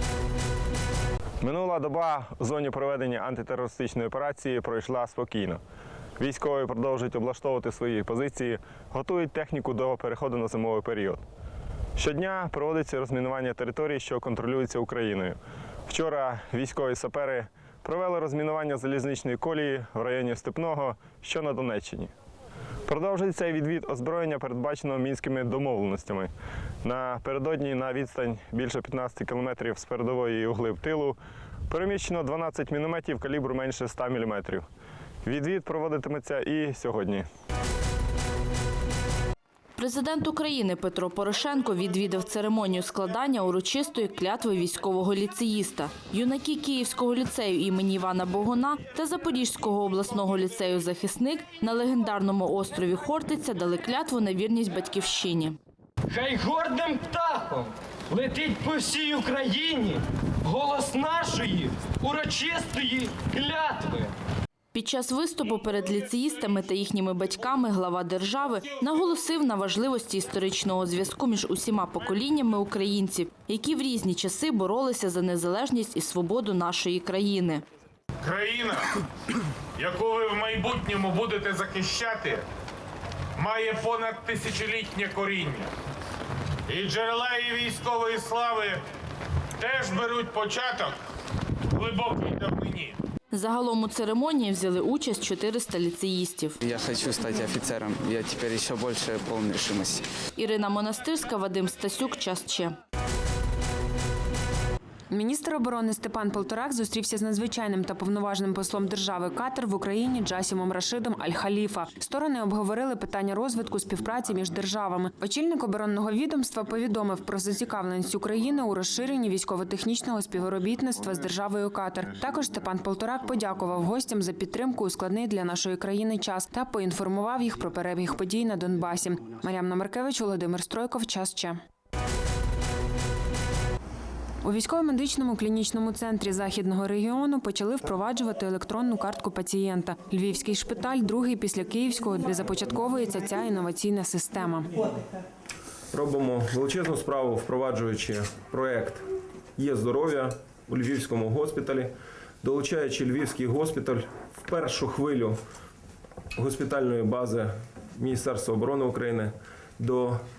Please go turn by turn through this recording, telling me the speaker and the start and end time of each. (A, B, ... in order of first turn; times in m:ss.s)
0:01.4-0:05.6 A
0:06.2-0:11.2 A
0:12.0-0:22.1 A
0:22.9-0:26.3 A
0:26.8-0:31.2 A
0:31.7-0:34.6 A
0:35.2-0:37.3 A
0:39.8-0:55.6 B
0:56.1-1:04.1 C
1:04.7-1:17.6 B
1:18.2-1:18.9 D
1:19.8-1:22.4 D
1:23.4-1:25.7 D
1:26.7-1:28.8 D
1:29.6-1:31.0 D
1:31.7-1:33.0 D
1:33.3-1:36.6 B
1:36.6-1:40.1 E
1:40.4-1:42.8 B
1:45.1-2:11.6 F
2:14.4-2:24.7 F
2:25.9-2:29.1 G
2:29.6-2:35.4 G
2:36.4-2:40.2 G